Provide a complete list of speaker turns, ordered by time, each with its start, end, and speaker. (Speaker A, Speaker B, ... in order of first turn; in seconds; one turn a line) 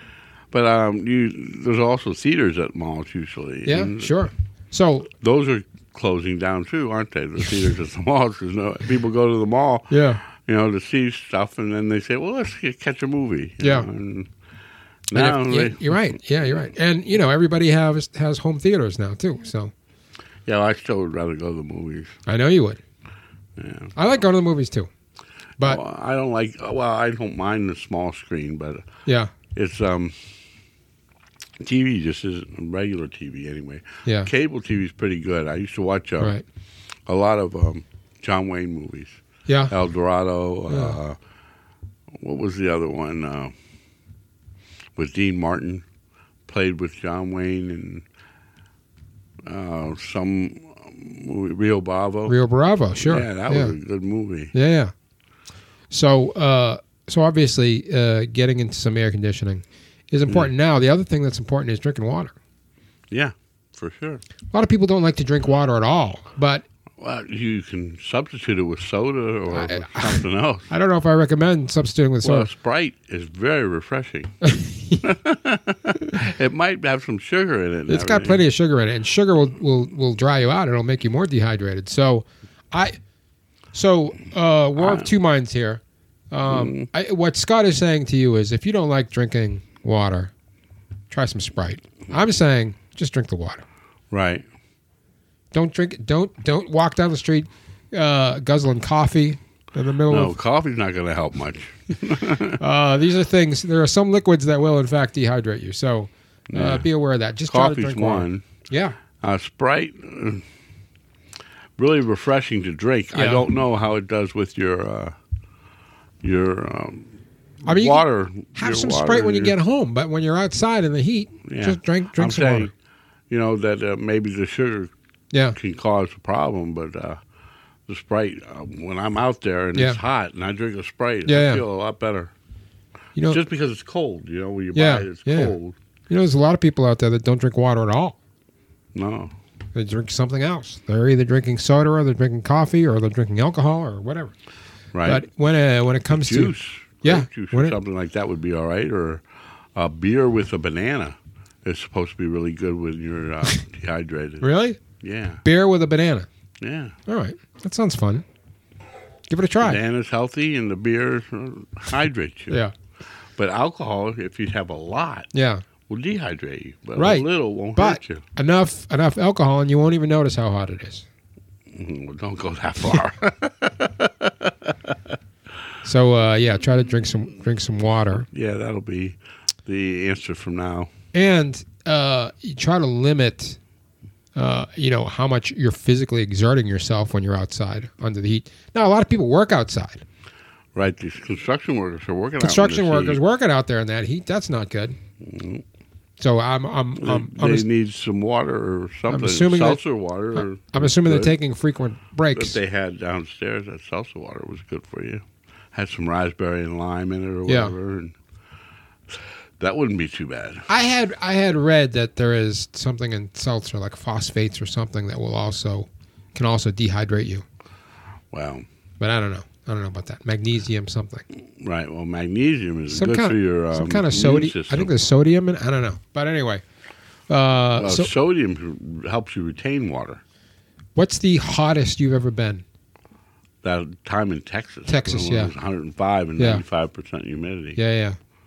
Speaker A: 0.5-4.1
Speaker B: 3.6-5.1
Speaker A: 5.2-14.3
Speaker B: 9.9-10.2
Speaker B: 13.6-13.9
Speaker A: 15.1-16.1
Speaker B: 15.1-19.7
Speaker A: 20.4-22.2
Speaker B: 22.2-22.8
Speaker A: 23.6-23.9
Speaker B: 23.9-24.9
Speaker A: 25.6-28.9
Speaker B: 29.1-29.3
Speaker A: 29.5-30.3
Speaker A: 31.6-36.3
Speaker B: 34.0-34.3
Speaker B: 36.2-36.4
Speaker A: 37.1-41.2
Speaker B: 39.5-39.7
Speaker B: 40.7-41.0
Speaker A: 42.1-43.5
Speaker A: 45.0-45.8
Speaker A: 46.5-48.0
Speaker A: 49.4-52.3
Speaker B: 52.3-53.7
Speaker A: 53.0-54.5
Speaker B: 54.5-54.9
Speaker B: 55.9-62.3
Speaker A: 63.1-64.2
Speaker B: 64.5-66.6
Speaker A: 67.0-70.7
Speaker B: 69.5-72.5
Speaker A: 72.2-74.4
Speaker B: 74.4-75.0
Speaker A: 75.0-78.4
Speaker B: 77.9-83.0
Speaker B: 83.7-90.3
Speaker A: 84.8-85.1
Speaker A: 86.5-86.9
Speaker B: 91.1-93.6
Speaker A: 94.1-94.4
Speaker B: 95.5-100.3
Speaker A: 100.1-102.6
Speaker B: 102.6-109.0
Speaker A: 106.5-106.9
Speaker A: 107.5-108.4
Speaker A: 109.2-110.5
Speaker A: 111.8-115.2
Speaker B: 113.1-113.5
Speaker A: 116.2-119.5
Speaker B: 117.6-122.7
Speaker A: 121.5-122.7
Speaker A: 123.3-124.9
Speaker A: 125.5-127.2
Speaker A: 127.9-132.3
Speaker B: 131.3-131.6
Speaker B: 133.2-133.4
Speaker A: 133.2-135.8
Speaker B: 134.7-135.5
Speaker B: 136.1-138.2
Speaker A: 138.9-139.3
Speaker B: 139.7-144.3
Speaker A: 144.9-145.2
Speaker B: 145.0-147.8
Speaker A: 146.1-154.5
Speaker B: 154.4-154.8
Speaker A: 155.0-155.4
Speaker B: 155.4-156.3
Speaker A: 156.6-157.0
Speaker B: 157.1-158.2
Speaker B: 159.3-159.8
Speaker A: 159.6-162.6
Speaker A: 163.3-165.3
Speaker B: 165.3-165.6
Speaker A: 165.9-168.2
Speaker B: 167.0-171.1
Speaker A: 171.7-175.2
Speaker B: 175.8-178.3
Speaker A: 178.3-180.9
Speaker B: 181.1-183.6
Speaker B: 184.3-190.0
Speaker A: 190.7-193.2
Speaker B: 192.4-195.0
Speaker A: 195.2-195.6
Speaker B: 196.2-197.7
Speaker A: 197.0-201.3
Speaker B: 199.1-199.8
Speaker B: 200.3-202.6
Speaker A: 202.3-208.2
Speaker B: 207.4-207.7
Speaker A: 209.1-210.7
Speaker B: 210.7-217.4
Speaker A: 218.3-218.7
Speaker B: 219.0-221.2
Speaker A: 221.6-224.9
Speaker B: 222.9-226.6
Speaker B: 227.3-228.1
Speaker A: 227.8-230.2
Speaker B: 230.9-232.6
Speaker A: 233.6-237.8
Speaker B: 234.9-235.5
Speaker B: 236.4-236.6
Speaker B: 237.8-238.2